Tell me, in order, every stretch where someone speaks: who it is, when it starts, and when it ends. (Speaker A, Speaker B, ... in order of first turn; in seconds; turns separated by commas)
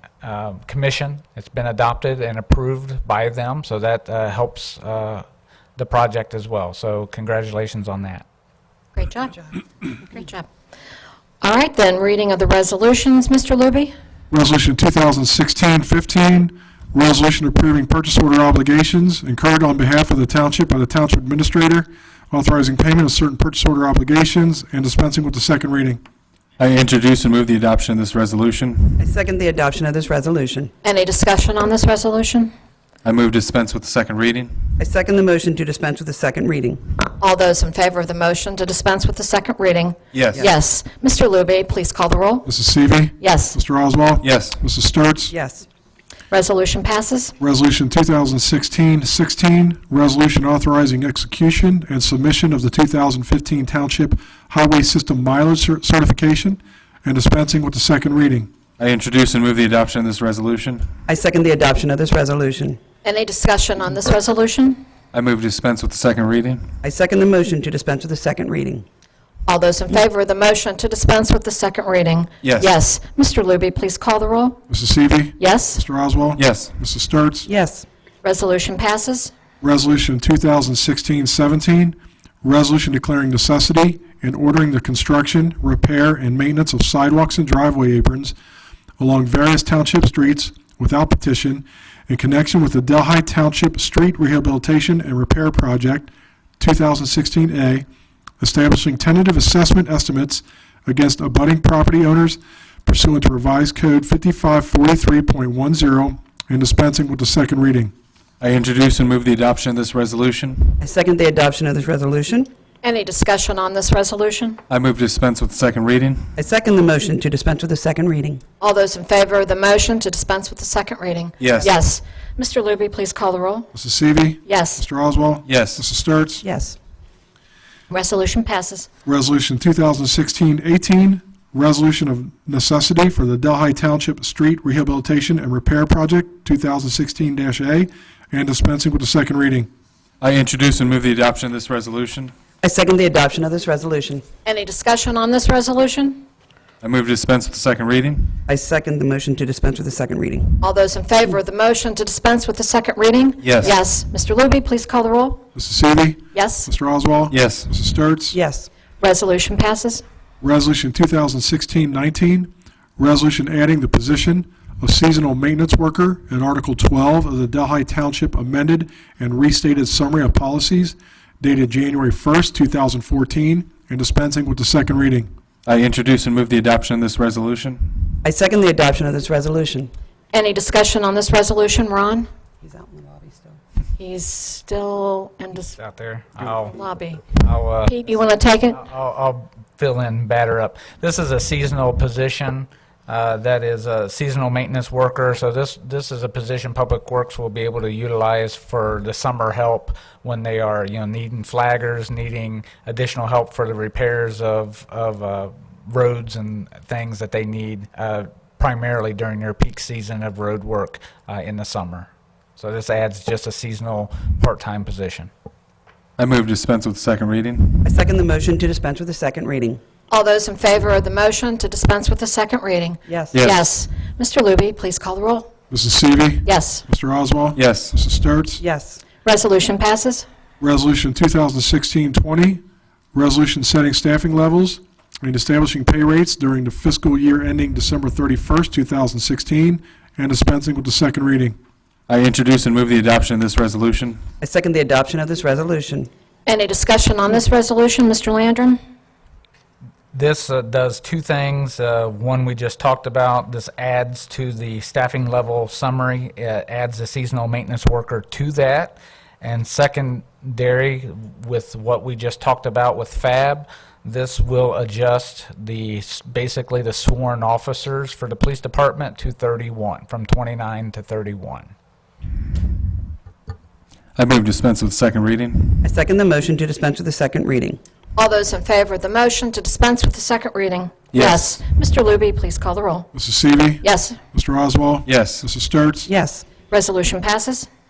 Speaker A: 0.2-5.2, Speaker A: 5.8-8.2, Speaker B: 8.9-10.5, Speaker B: 11.4-13.9, Speaker C: 14.3-26.0, Speaker D: 26.6-29.1, Speaker E: 29.0-30.7, Speaker B: 30.8-32.5, Speaker D: 33.0-34.7, Speaker E: 34.8-36.9, Speaker B: 37.2-42.5, Speaker D: 40.1-40.4, Speaker C: 42.5-45.3, Speaker B: 43.2-43.6, Speaker D: 44.2-44.6, Speaker E: 45.3-45.7, Speaker B: 46.3-47.3, Speaker C: 47.4-58.5, Speaker D: 58.8-61.0, Speaker E: 61.1-62.8, Speaker B: 63.0-64.8, Speaker D: 65.1-66.7, Speaker E: 66.8-68.8, Speaker B: 69.5-74.6, Speaker D: 72.4-72.7, Speaker C: 74.7-77.5, Speaker B: 75.4-75.8, Speaker D: 76.3-76.7, Speaker E: 77.5-77.8, Speaker B: 78.2-79.3, Speaker C: 79.6-88.3, Speaker C: 89.0-97.8, Speaker C: 98.4-107.9, Speaker D: 108.4-110.8, Speaker E: 110.8-112.5, Speaker B: 112.8-114.6, Speaker D: 114.7-116.3, Speaker E: 116.3-118.4, Speaker B: 118.6-123.7, Speaker D: 121.4-121.7, Speaker E: 121.4-121.7, Speaker C: 123.7-126.4, Speaker B: 124.5-124.8, Speaker D: 125.5-125.8, Speaker E: 126.4-126.8, Speaker B: 127.9-128.9, Speaker C: 129.0-139.7, Speaker D: 140.2-142.3, Speaker E: 142.6-144.3, Speaker B: 144.4-146.2, Speaker D: 146.8-148.4, Speaker E: 148.5-150.6, Speaker B: 150.6-155.4, Speaker D: 153.4-153.7, Speaker C: 155.5-158.4, Speaker B: 156.3-156.7, Speaker D: 157.3-157.7, Speaker E: 158.3-158.7, Speaker B: 159.0-160.0, Speaker C: 160.4-175.3, Speaker D: 175.6-178.2, Speaker E: 178.2-179.9, Speaker B: 180.3-182.3, Speaker E: 182.6-183.6, Speaker B: 184.0-185.8, Speaker A: 185.8-186.8, Speaker B: 186.4-187.3, Speaker A: 187.3-188.2, Speaker B: 187.8-188.8, Speaker A: 188.7-215.3, Speaker D: 216.2-217.9, Speaker E: 217.8-219.8, Speaker B: 220.1-225.5, Speaker E: 223.1-223.4, Speaker D: 223.3-223.6, Speaker C: 225.7-228.6, Speaker B: 226.4-226.8, Speaker D: 227.5-228.0, Speaker E: 228.6-229.0, Speaker B: 229.2-230.2, Speaker C: 230.6-232.6, Speaker C: 233.1-241.6, Speaker D: 242.1-244.2, Speaker E: 244.4-246.1, Speaker B: 246.4-248.8, Speaker A: 250.1-271.7, Speaker D: 274.1-275.9, Speaker E: 275.8-277.8, Speaker B: 278.1-283.1, Speaker D: 281.1-281.6, Speaker C: 283.1-286.1, Speaker B: 283.8-284.2, Speaker D: 285.1-285.4, Speaker E: 286.1-286.5, Speaker B: 286.6-287.7